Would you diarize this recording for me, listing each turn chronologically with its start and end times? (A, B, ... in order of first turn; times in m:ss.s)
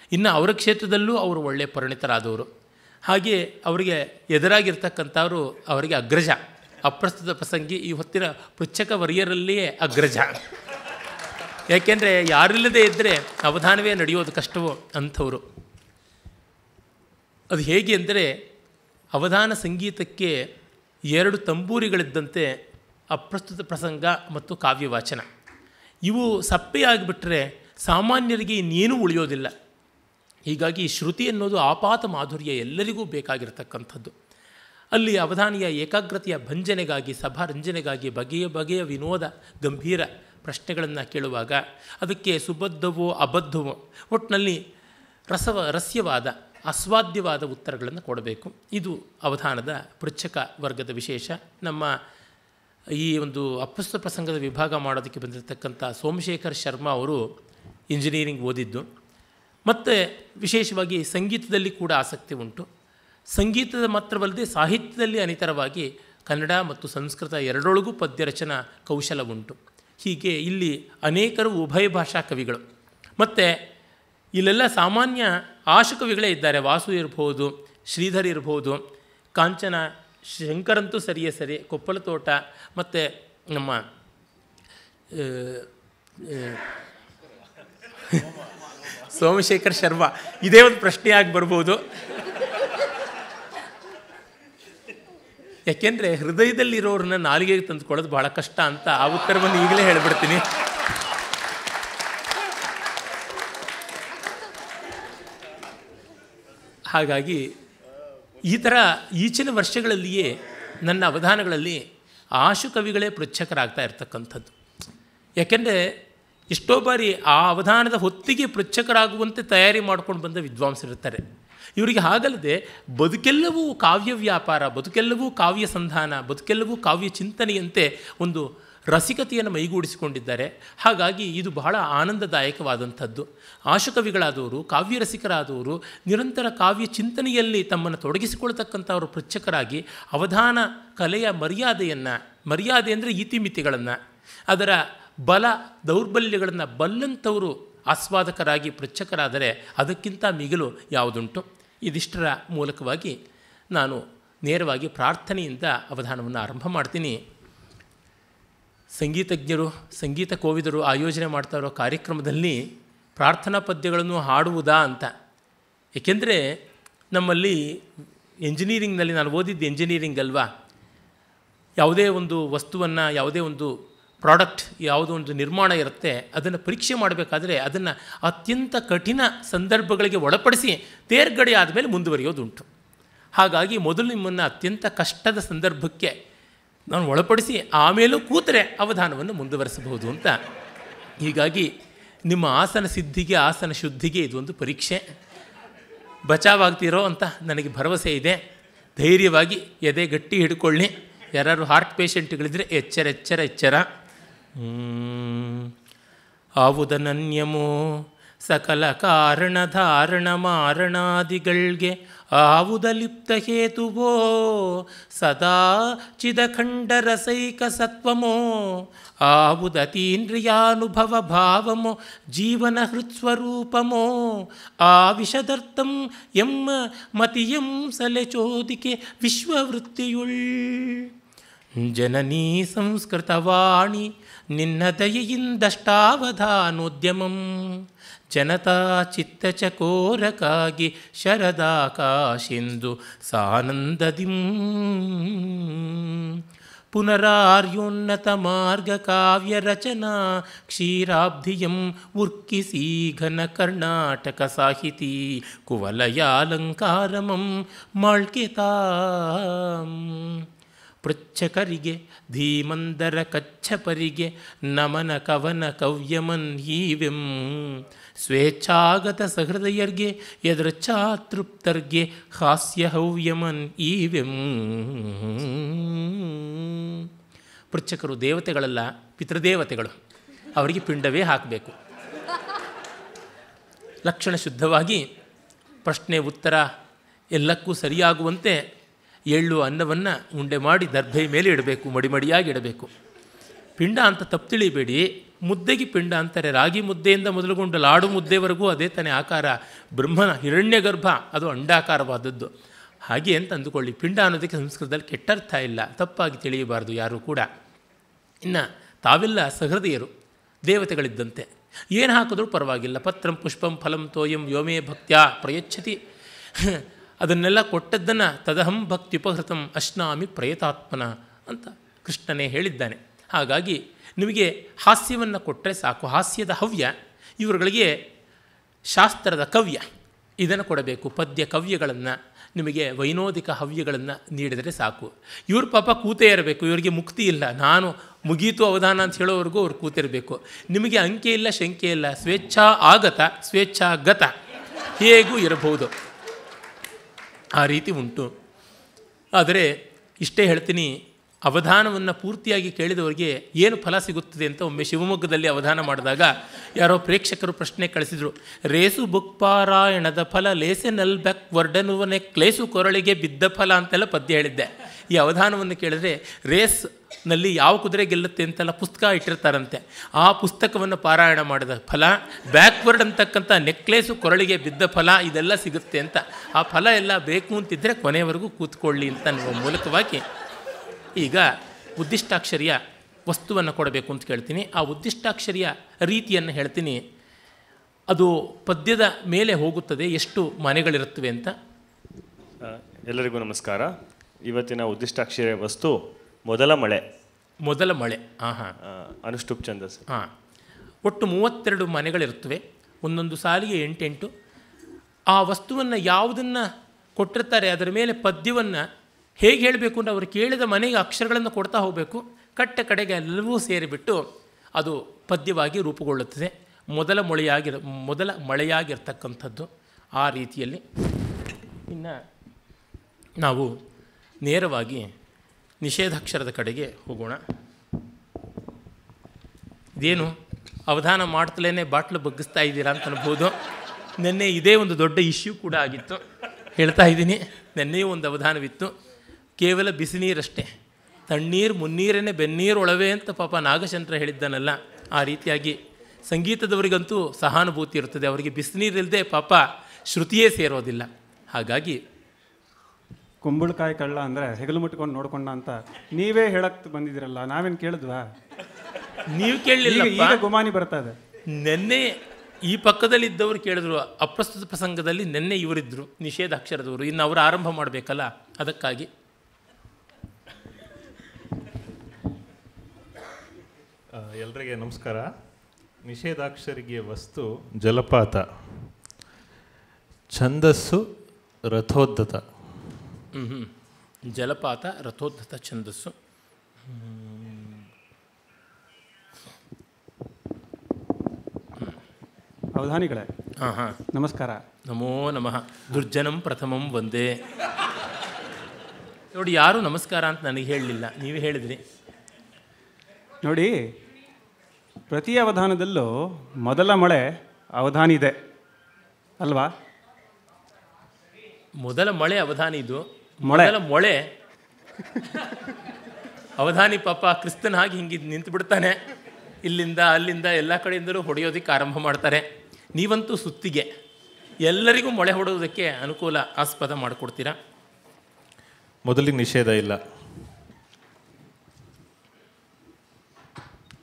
0:00.1-0:02.5 A
0:03.1-0:10.4 A
0:11.7-0:15.4 A
0:17.5-0:18.3 A
0:19.1-0:20.4 A
0:21.1-0:22.5 A
0:23.1-0:25.2 A
0:26.0-0:29.5 A
0:30.5-0:34.1 A
0:34.9-0:44.6 A
0:45.3-0:51.9 A
0:53.0-0:57.2 A
0:57.9-0:58.9 A
0:59.7-1:02.7 A
1:03.4-1:12.6 A
1:13.2-1:13.5 A
1:14.4-1:18.8 A
1:19.4-1:23.8 A
1:25.1-1:25.7 A
1:26.2-1:26.6 A
1:28.9-1:31.8 A
1:35.7-1:40.4 A
1:46.9-1:47.5 A
1:48.4-1:51.8 A
1:52.4-1:54.5 A
1:55.4-1:55.8 A
1:56.5-2:01.2 A
2:01.8-2:33.2 A
2:33.7-2:37.2 A
2:38.9-2:42.6 A
2:43.2-2:45.1 A
2:46.0-2:46.4 A
2:47.1-2:47.6 A
2:48.4-2:50.5 A
2:51.8-3:02.6 A
3:03.4-3:06.1 A
3:06.9-3:10.4 A
3:11.2-3:11.7 A
3:12.3-3:15.0 A
3:16.3-3:18.4 A
3:19.0-3:23.8 A
3:24.6-3:25.7 A
3:26.6-3:27.7 A
3:28.4-3:51.1 A
3:51.8-4:06.4 A
4:06.9-4:20.4 A
4:21.0-4:37.1 A
4:37.7-4:40.0 A
4:40.5-4:41.7 A
4:44.0-4:45.0 A
4:45.8-4:46.6 A
4:47.3-4:48.6 A
4:49.3-4:52.9 A
4:53.8-5:02.5 A
5:03.0-5:07.5 A
5:08.4-5:10.1 A
5:10.6-5:16.0 A
5:16.5-5:27.9 A
5:28.9-5:29.8 A
5:30.4-5:44.3 A
5:45.0-5:45.9 A
5:47.6-5:48.3 A
5:49.4-5:49.7 A
5:50.2-5:50.9 A
5:51.4-6:20.2 A
6:21.2-6:27.0 A
6:28.1-6:31.5 A
6:32.6-6:37.0 B
6:37.6-6:38.7 A
6:38.8-6:40.0 B
6:41.0-6:44.3 A
6:45.3-6:48.8 A
6:49.4-6:54.2 A
6:54.8-7:00.8 A
7:01.9-7:02.2 A
7:03.4-7:03.7 A
7:04.4-7:05.1 A
7:05.8-7:07.4 A
7:10.0-7:10.4 A
7:10.9-7:13.5 A
7:14.2-7:16.2 A
7:16.7-7:18.9 A
7:19.6-7:20.7 A
7:21.3-7:32.0 A
7:33.4-7:38.3 C
7:39.3-7:40.4 A
7:39.8-7:41.2 C
7:41.5-7:42.1 A
7:42.6-7:49.1 A
7:54.1-7:55.3 D
7:56.0-7:58.9 D
8:00.3-8:01.0 D
8:01.7-8:02.4 D
8:03.3-8:03.7 A
8:04.2-8:06.1 A
8:06.8-8:07.9 A
8:12.7-8:13.3 C
8:13.6-8:14.0 A
8:14.1-8:14.6 C
8:14.9-8:17.3 A
8:19.3-8:21.8 A
8:23.4-8:23.8 C
8:25.1-8:26.1 C
8:26.6-8:28.4 C
8:29.4-8:29.7 C
8:31.8-8:34.2 A
8:33.4-8:33.7 C
8:36.6-8:39.0 A
8:39.6-8:43.9 A
8:44.6-8:47.6 A
8:49.0-8:50.0 D